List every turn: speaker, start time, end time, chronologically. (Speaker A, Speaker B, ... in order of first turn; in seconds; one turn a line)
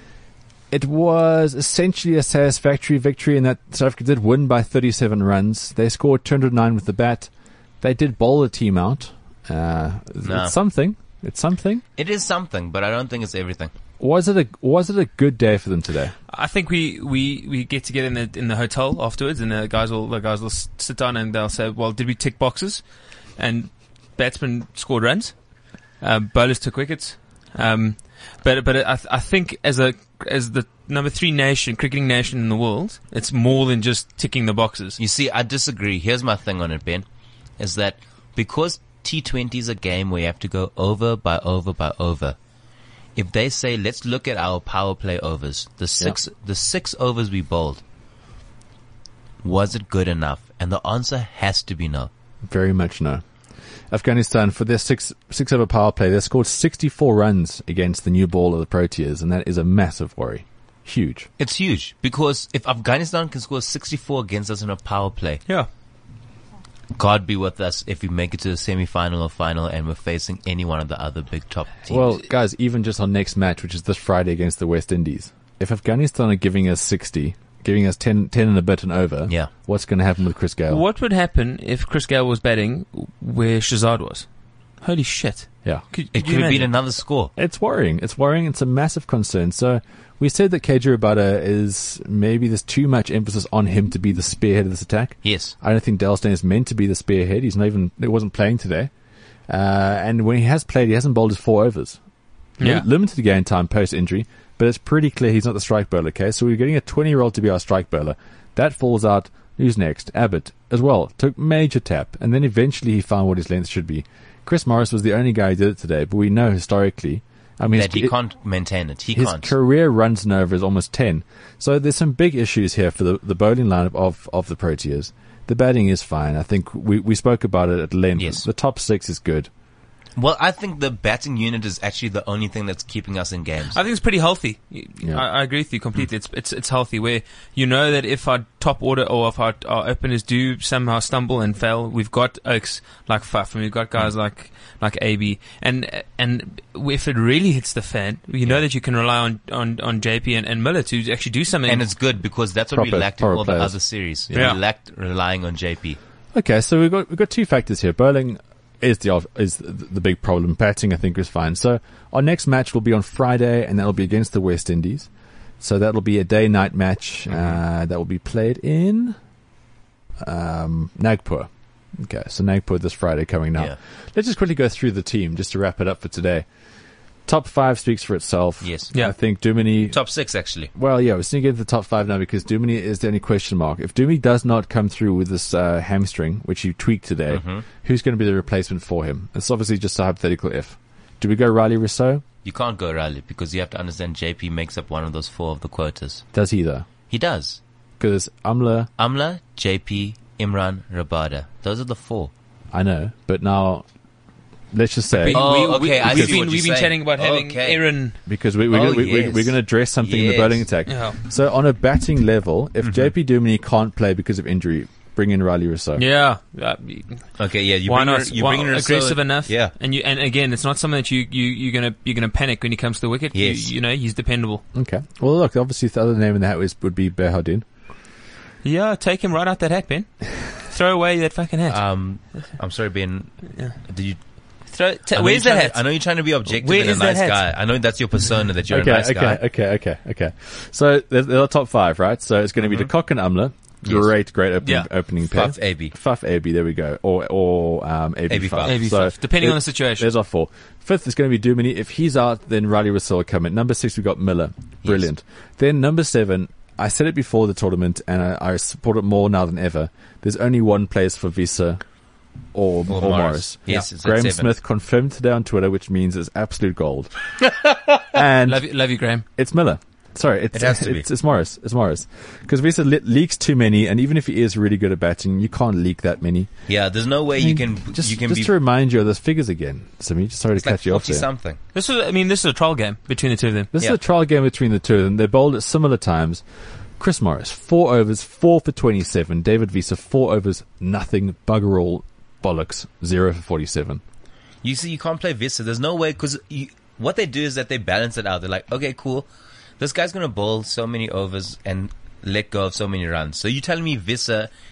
Speaker A: 0.7-11.8
Speaker B: 10.2-10.6
Speaker B: 11.9-13.7
Speaker A: 14.0-16.1
Speaker C: 16.3-35.0
Speaker B: 35.0-37.0
Speaker B: 37.6-42.4
Speaker B: 43.1-47.8
Speaker B: 49.4-52.1
Speaker A: 52.4-53.2
Speaker A: 53.9-61.3
Speaker B: 61.4-65.4
Speaker B: 67.0-72.2
Speaker A: 71.9-80.8
Speaker B: 79.2-79.5
Speaker C: 80.7-86.7
Speaker B: 86.1-87.3
Speaker A: 87.3-98.9
Speaker B: 95.2-95.5
Speaker A: 99.5-102.0
Speaker C: 102.6-102.8
Speaker A: 102.6-118.1
Speaker B: 117.7-119.6
Speaker A: 119.1-129.5
Speaker B: 128.2-128.5
Speaker B: 130.2-133.8
Speaker C: 133.7-151.9
Speaker B: 151.7-156.0
Speaker A: 152.7-154.4
Speaker C: 154.3-154.6
Speaker A: 156.3-169.2
Speaker B: 167.3-167.6
Speaker A: 170.2-176.5
Speaker A: 177.3-192.2
Speaker B: 178.6-178.9
Speaker B: 179.9-180.7
Speaker B: 187.3-187.7
Speaker B: 192.4-196.2
Speaker A: 196.3-196.9
Speaker B: 197.0-197.6
Speaker A: 198.0-198.9
Speaker B: 199.0-202.3
Speaker A: 202.7-203.9
Speaker A: 204.7-206.4
Speaker C: 205.1-208.2
Speaker B: 205.3-208.1
Speaker A: 208.2-216.0
Speaker B: 208.7-210.8
Speaker C: 210.9-211.2
Speaker B: 212.8-213.1
Speaker C: 216.0-224.6
Speaker B: 217.3-219.8
Speaker B: 223.3-223.8
Speaker A: 224.7-227.6
Speaker C: 228.6-232.5
Speaker B: 231.7-239.4
Speaker C: 233.4-233.8
Speaker C: 234.6-237.5
Speaker A: 238.7-267.3
Speaker B: 242.6-242.9
Speaker B: 243.8-244.3
Speaker C: 244.6-244.9
Speaker B: 245.2-245.9
Speaker B: 248.3-249.1
Speaker C: 248.6-250.1
Speaker B: 254.8-255.1
Speaker B: 262.9-264.6
Speaker A: 268.1-281.3
Speaker C: 268.4-269.2
Speaker B: 270.5-271.1
Speaker B: 276.7-278.5
Speaker B: 280.5-281.6
Speaker C: 281.7-283.7
Speaker A: 283.7-286.4
Speaker A: 287.0-294.0
Speaker B: 294.6-304.5